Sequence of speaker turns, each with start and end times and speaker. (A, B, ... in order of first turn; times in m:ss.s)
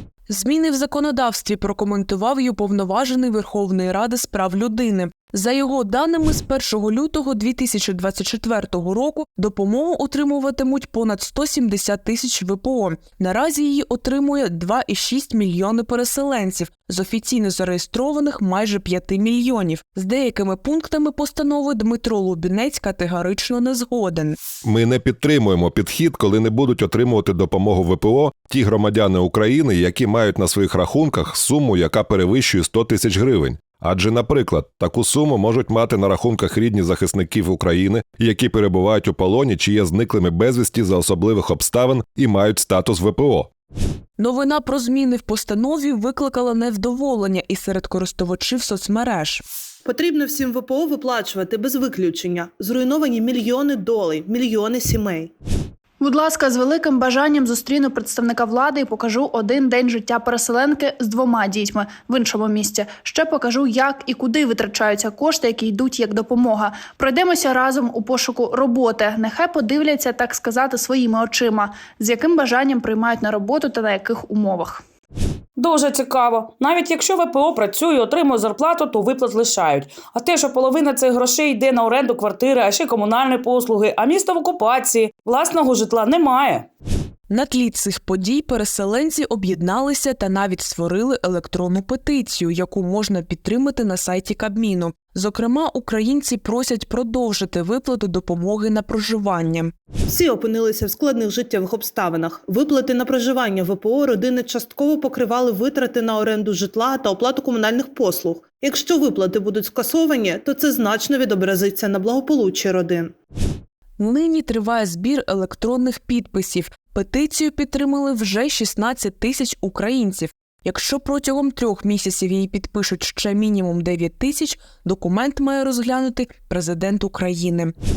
0:00.3-0:24.4 A
0:24.6-0:43.5 B
0:44.2-0:49.4 A
0:49.8-0:55.3 C
0:56.0-1:14.8 D
1:15.6-1:26.7 E
1:27.3-1:39.7 A
1:40.1-1:53.1 C
1:54.0-2:07.7 A